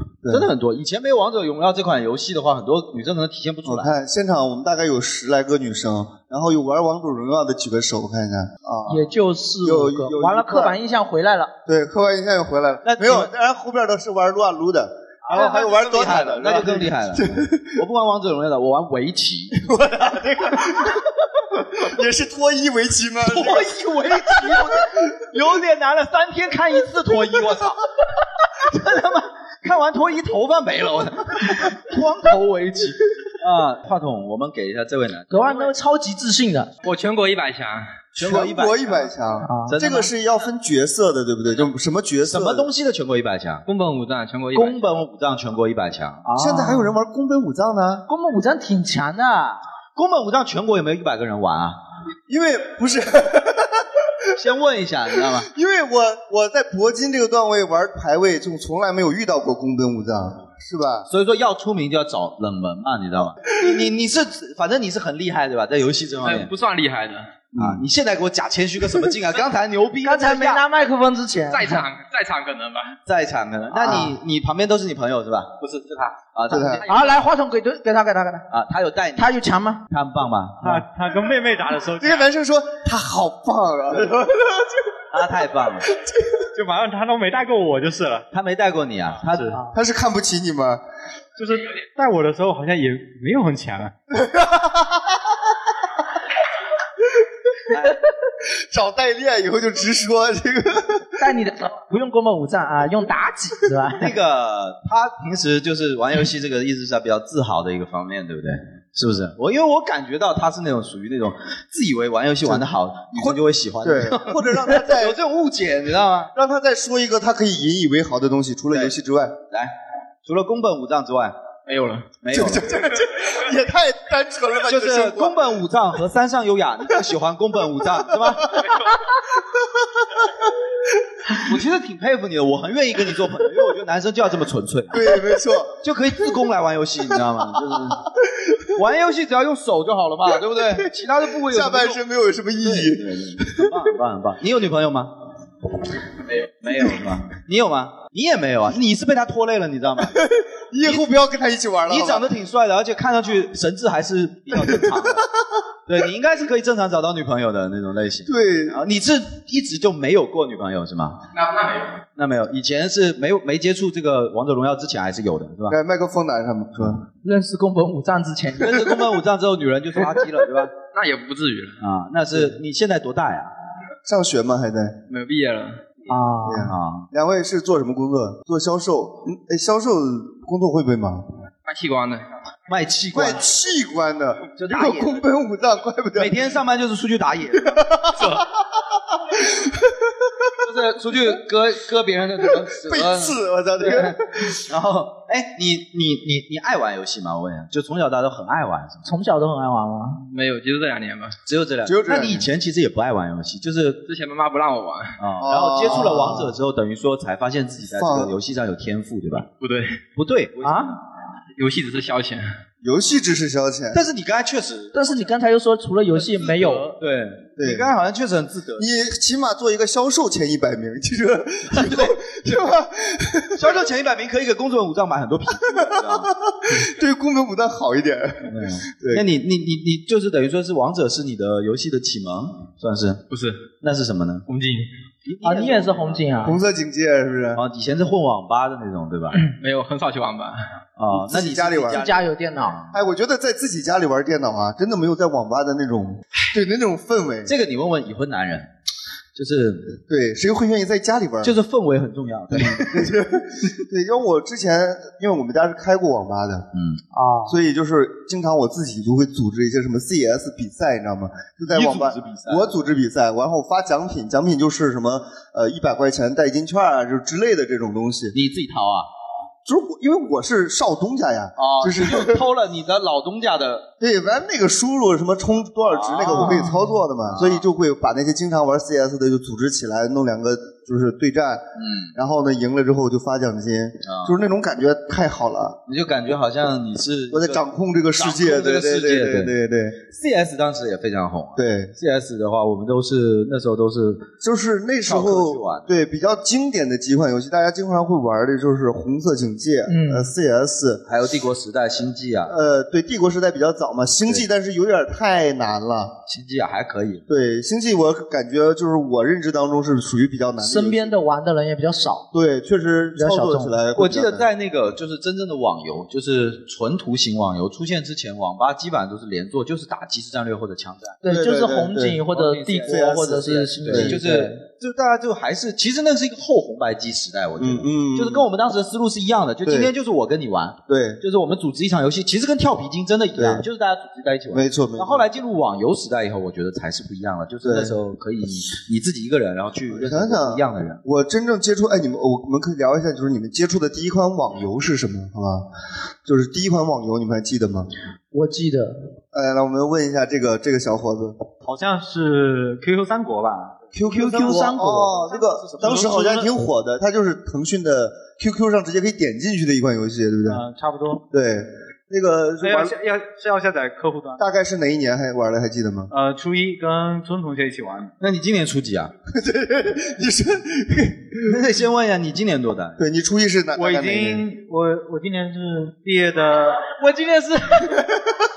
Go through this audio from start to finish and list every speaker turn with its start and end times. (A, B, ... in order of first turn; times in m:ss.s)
0:00.2-0:00.5 A
0:00.3-0:03.9 B
0:03.6-0:09.1 A
0:08.9-0:11.5 C
0:09.6-0:10.8 A
0:11.6-0:17.8 A
0:12.8-0:13.3 B
0:15.3-0:19.6 B
0:19.6-0:25.1 A
0:23.2-0:35.6 B
0:35.3-0:36.7 C
0:36.8-0:38.0 D
0:38.2-0:39.1 B
0:38.2-0:42.7 A
0:39.4-0:39.7 C
0:39.7-0:40.1 B
0:42.2-0:43.6 B
0:43.6-0:44.8 D
0:44.5-0:46.2 B
0:46.2-0:46.9 C
0:46.3-0:48.0 A
0:48.1-0:49.6 C
0:49.9-0:51.8 B
0:52.3-0:54.1 A
0:54.3-0:55.5 B
0:55.1-1:01.1 A
1:01.1-1:06.5 B
1:06.2-1:07.4 D
1:07.5-1:07.8 A
1:07.6-1:10.6 B
1:10.0-1:11.8 C
1:11.5-1:13.0 D
1:13.0-1:15.5 B
1:13.8-1:14.1 A
1:15.6-1:16.2 E
1:16.3-1:16.8 B
1:16.5-1:16.8 A
1:16.9-1:18.5 C
1:18.5-1:19.4 B
1:19.2-1:19.8 C
1:19.9-1:20.8 B
1:20.6-1:22.2 E
1:22.0-1:25.0 A
1:25.1-1:25.9 B
1:26.5-1:28.3 E
1:28.3-1:29.6 B
1:29.2-1:29.7 E
1:29.7-1:30.8 A
1:31.4-1:33.9 E
1:34.1-1:35.4 A
1:37.7-1:38.0 B
1:38.5-1:41.1 A
1:41.2-1:44.1 C
1:44.0-1:56.3 B
1:52.4-1:55.2 A
1:56.3-1:59.4 A
2:00.2-2:01.3 B
2:01.7-2:02.1 D
2:02.2-2:02.8 B
2:02.3-2:05.5 A
2:04.7-2:08.7 B
2:09.8-2:10.2 A
2:11.4-2:15.1 B
2:14.9-2:15.8 A
2:15.8-2:18.1 B
2:18.7-2:22.0 B
2:20.8-2:23.7 A
2:22.6-2:25.1 B
2:26.3-2:30.1 B
2:30.0-2:32.3 A
2:31.9-2:35.3 B
2:34.5-2:35.1 A
2:35.9-2:41.2 B
2:38.2-2:38.8 A
2:41.4-2:41.8 D
2:42.2-2:45.8 B
2:45.7-2:47.0 A
2:47.2-2:49.0 C
2:48.6-2:50.7 B
2:50.8-2:51.8 D
2:51.8-2:53.5 B
2:54.0-2:55.0 A
2:55.1-2:56.1 D
2:56.1-2:56.7 C
2:56.4-3:01.2 A
2:56.7-2:57.1 B
3:01.6-3:02.3 D
3:02.7-3:03.5 B
3:03.1-3:06.4 A
3:04.6-3:05.3 B
3:06.2-3:07.8 B
3:07.6-3:08.4 A
3:09.3-3:10.5 A
3:10.6-3:19.0 B
3:12.5-3:14.6 A
3:19.0-3:20.2 C
3:20.2-3:21.4 D
3:21.4-3:24.0 B
3:21.8-3:22.5 A
3:24.0-3:25.2 D
3:25.2-3:29.5 B
3:25.4-3:26.6 A
3:27.9-3:28.3 A
3:29.6-3:30.0 D
3:30.2-3:31.0 B
3:30.6-3:31.0 C
3:31.6-3:32.4 D
3:32.8-3:34.0 A
3:33.9-3:35.3 B
3:34.9-3:36.9 C
3:36.4-3:38.9 B
3:37.6-3:37.9 A
3:38.8-3:43.8 A
3:41.7-3:42.2 B
3:43.6-3:46.3 B
3:45.7-3:49.2 A
3:48.5-3:53.2 B
3:53.3-3:53.7 D
3:53.8-3:54.4 B
3:54.5-3:54.9 E
3:55.2-3:56.2 B
3:55.4-3:56.6 C
3:56.4-3:57.6 A
3:57.5-3:59.4 B
3:59.4-4:00.6 D
4:01.0-4:03.0 B
4:01.1-4:02.0 A
4:01.9-4:02.8 C
4:02.9-4:07.5 A
4:07.4-4:08.7 B
4:09.4-4:10.0 B
4:10.1-4:11.6 A
4:11.4-4:13.1 B
4:12.5-4:16.6 A
4:16.7-4:17.0 B
4:17.1-4:17.5 C
4:17.4-4:28.3 A
4:21.7-4:22.8 B
4:28.3-4:29.1 B
4:29.6-4:32.4 A
4:31.6-4:33.9 B
4:34.0-4:45.8 A
4:35.9-4:36.7 B
4:37.3-4:37.7 B
4:41.8-4:42.1 B
4:44.0-4:44.4 B
4:45.9-4:47.6 B
4:47.3-4:50.0 A
4:48.1-4:49.5 B
4:50.1-4:54.3 B
4:51.6-4:51.9 A
4:54.4-5:01.0 A
4:55.0-4:55.9 B
4:59.9-5:00.3 C
5:01.1-5:02.5 B
5:02.4-5:06.1 A
5:06.3-5:07.2 B
5:07.3-5:11.2 A
5:10.6-5:12.3 C
5:12.3-5:14.5 A
5:13.2-5:13.7 C
5:13.9-5:21.2 B
5:21.2-5:24.6 C
5:21.2-5:22.2 A
5:22.3-5:41.0 B
5:22.8-5:24.2 A
5:27.6-5:28.5 A
5:29.6-5:29.9 A
5:30.9-5:31.2 A
5:33.3-5:33.6 A
5:34.5-5:35.3 A
5:37.6-5:38.0 A
5:39.9-5:45.7 A
5:46.2-5:47.9 A
5:48.3-5:49.0 C
5:49.3-5:51.4 A
5:51.6-5:53.9 E
5:53.9-6:00.6 A
5:54.1-5:55.2 C
5:54.4-5:54.7 B
5:55.6-5:56.5 E
6:00.5-6:01.2 E
6:01.3-6:02.9 A
6:02.6-6:04.4 E
6:04.4-6:06.1 A
6:06.1-6:08.1 E
6:08.2-6:09.1 B
6:09.3-6:11.6 A
6:11.4-6:13.0 B
6:13.0-6:14.4 A
6:13.8-6:17.0 E
6:17.0-6:18.0 C